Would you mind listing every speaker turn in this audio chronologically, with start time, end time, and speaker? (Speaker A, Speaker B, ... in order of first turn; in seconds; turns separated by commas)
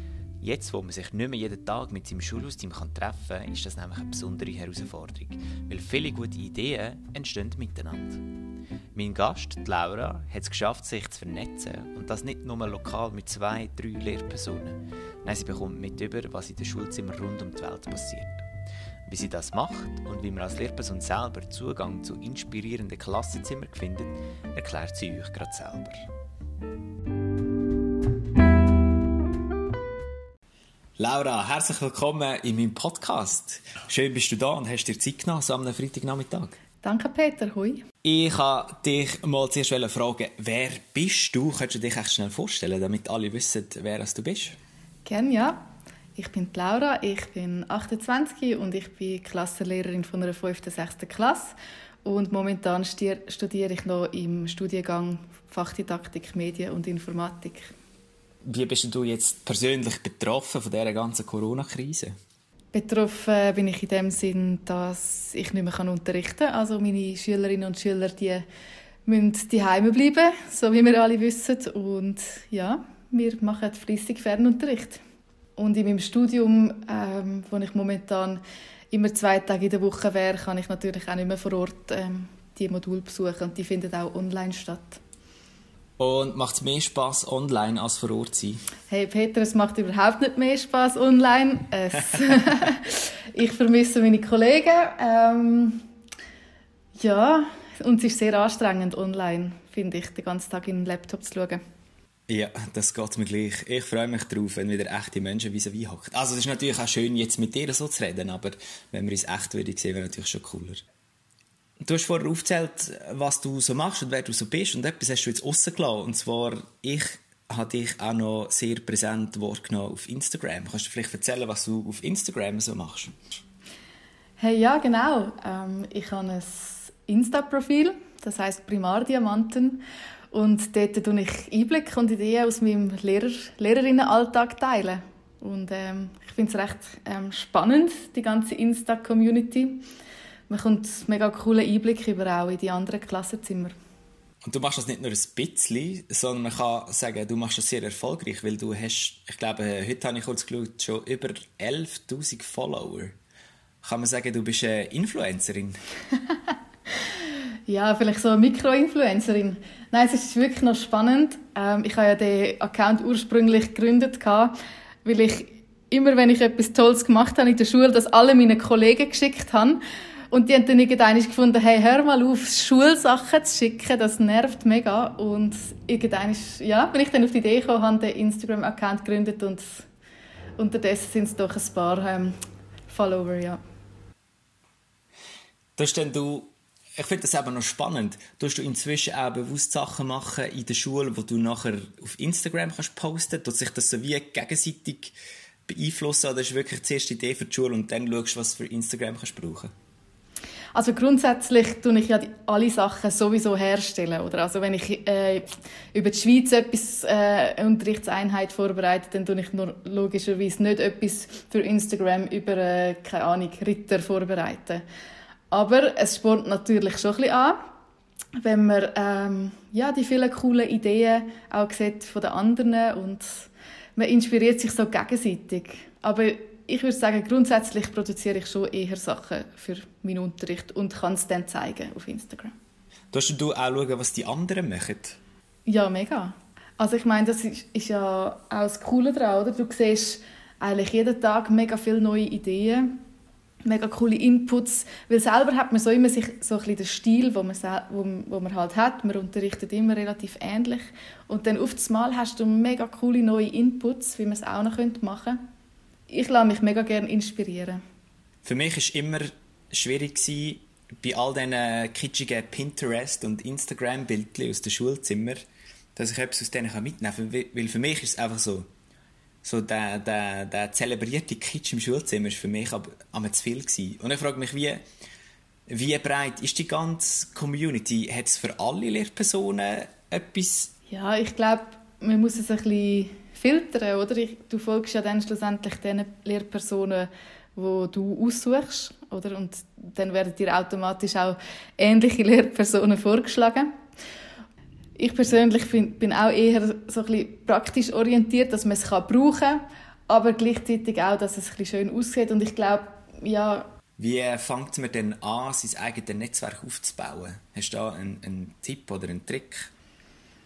Speaker A: 0.4-8.2, Speaker A: 8.9-18.5, Speaker A: 19.1-26.1, Speaker A: 31.0-36.6, Speaker B: 36.8-37.8, Speaker A: 38.0-44.6, Speaker B: 45.0-45.6, Speaker B: 46.2-51.5, Speaker B: 52.0-57.7, Speaker A: 58.5-62.1, Speaker B: 62.7-68.4, Speaker B: 69.1-75.0, Speaker B: 75.6-85.0, Speaker A: 86.0-88.6, Speaker B: 88.9-95.8, Speaker B: 97.0-101.6, Speaker A: 102.3-110.8, Speaker A: 111.8-123.2, Speaker B: 124.4-139.8, Speaker B: 140.5-143.8, Speaker A: 144.4-153.2, Speaker A: 153.8-155.8, Speaker B: 157.1-164.5, Speaker B: 165.1-169.8, Speaker B: 170.3-179.9, Speaker B: 180.6-182.3, Speaker B: 182.9-183.6, Speaker A: 185.8-195.1, Speaker A: 195.7-199.7, Speaker B: 200.8-214.8, Speaker B: 215.5-217.6, Speaker B: 218.4-232.5, Speaker A: 233.1-235.2, Speaker B: 235.7-242.9, Speaker B: 243.7-255.4, Speaker B: 256.1-257.8, Speaker A: 258.4-265.4, Speaker A: 265.9-268.7, Speaker A: 269.4-274.8, Speaker A: 275.7-280.7, Speaker B: 280.9-293.7, Speaker B: 295.0-303.7, Speaker A: 304.0-309.7